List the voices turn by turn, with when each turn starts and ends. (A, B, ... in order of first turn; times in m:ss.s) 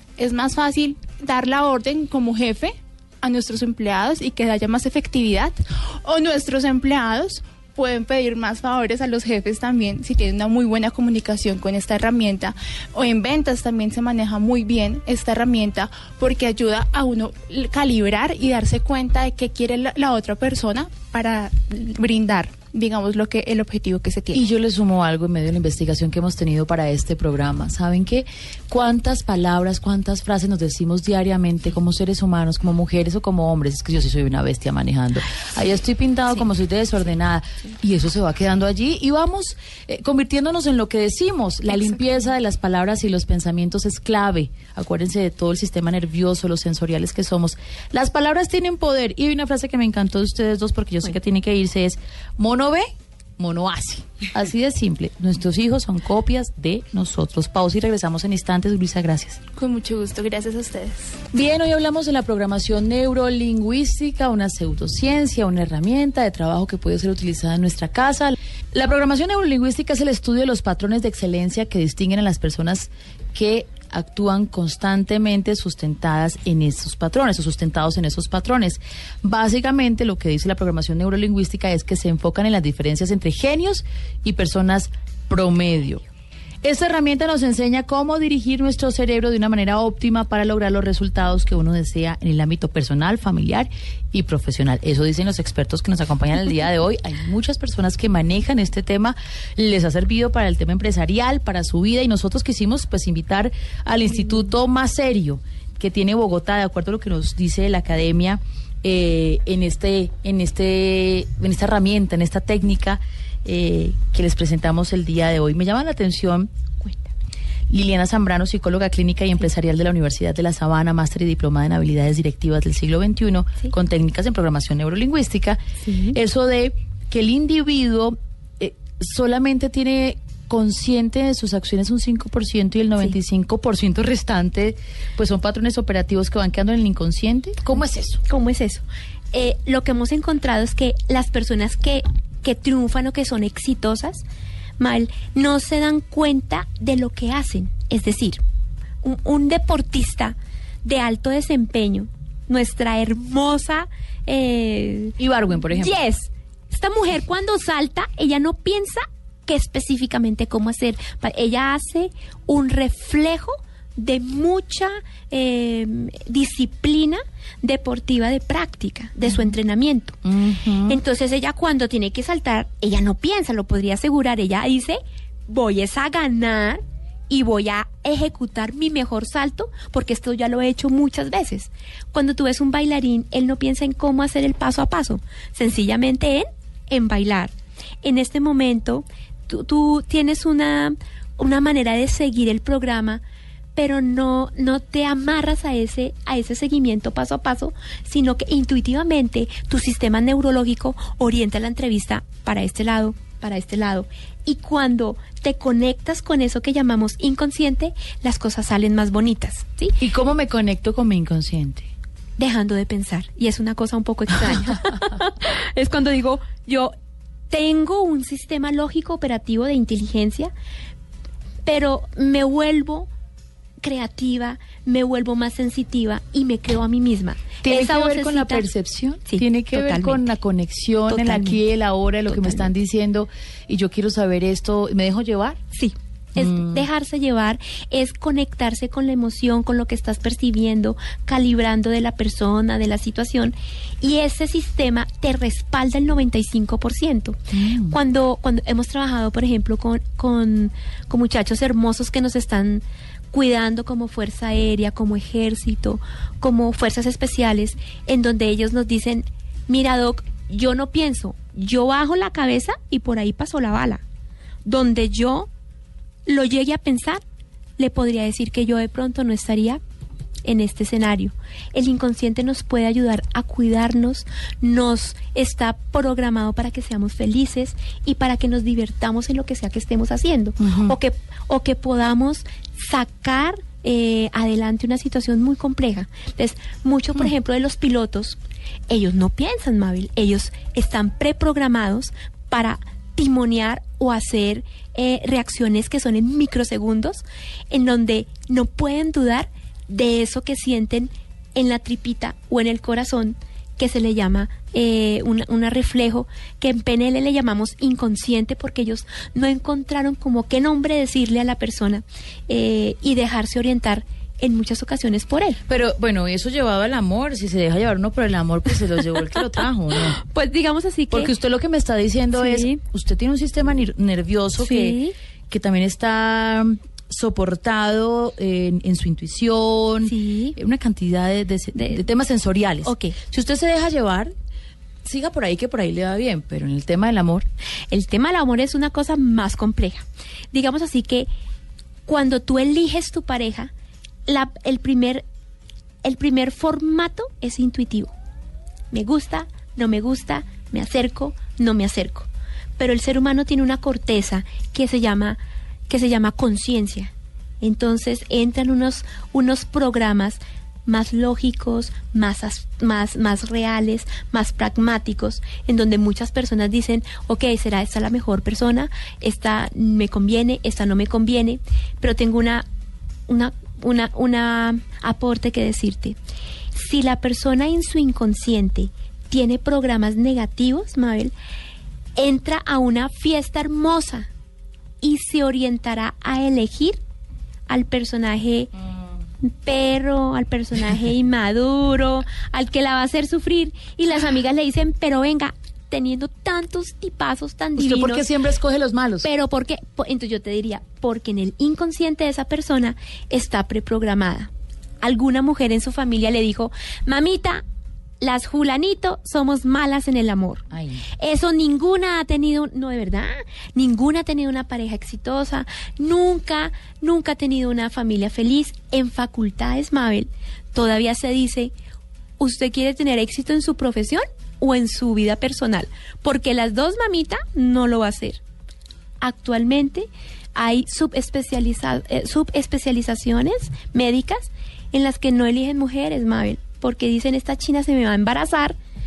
0:00.2-0:24.4 A
0:24.3-0:59.4 B
0:59.6-1:01.2 A
1:01.3-1:26.0 B
1:26.6-1:56.5 B
1:56.8-1:57.1 C
1:57.7-2:18.2 B
2:05.8-2:06.2 C
2:18.2-2:24.2 C
2:24.8-2:28.4 C
2:29.0-2:35.2 C
2:35.2-2:36.0 B
2:35.7-2:50.2 C
2:50.2-2:51.0 B
2:50.9-3:07.5 C
3:08.0-3:13.2 C
3:13.7-3:30.0 C
3:30.0-3:31.9 B
3:32.4-3:36.9 C
3:37.5-3:40.5 C
3:41.6-3:43.1 C
3:43.8-3:48.7 C
3:47.6-3:55.6 B
3:49.2-3:50.2 C
3:51.1-3:51.6 C
3:52.3-3:52.7 C
3:55.7-4:24.0 C
3:56.4-3:56.9 B
4:07.5-4:08.0 B
4:24.6-4:25.5 C
4:26.2-4:27.2 C
4:27.8-4:29.8 C
4:30.4-4:48.4 C
4:40.6-4:41.0 B
4:48.9-5:15.6 C
5:15.7-5:20.2 B
5:19.9-5:21.3 C
5:21.1-5:25.0 B
5:22.4-5:22.8 C
5:24.6-5:25.1 C
5:25.5-5:34.3 B
5:30.0-5:30.6 C
5:31.7-5:32.0 C
5:32.8-5:33.2 C
5:35.0-5:37.5 B
5:37.9-5:41.3 C
5:42.0-5:43.7 C
5:44.3-5:45.2 C
5:46.0-5:48.1 C
5:48.9-6:12.6 C
6:13.3-6:16.2 C
6:16.7-6:21.3 C
6:22.2-6:24.3 C
6:25.0-6:27.0 C
6:27.7-6:28.7 C
6:29.4-6:38.2 C
6:37.8-6:39.3 B
6:39.2-6:44.5 C
6:45.0-6:47.6 C
6:48.2-6:50.6 C
6:50.7-6:51.0 B
6:51.2-7:01.7 C
7:02.4-7:08.4 C
7:09.2-7:18.8 C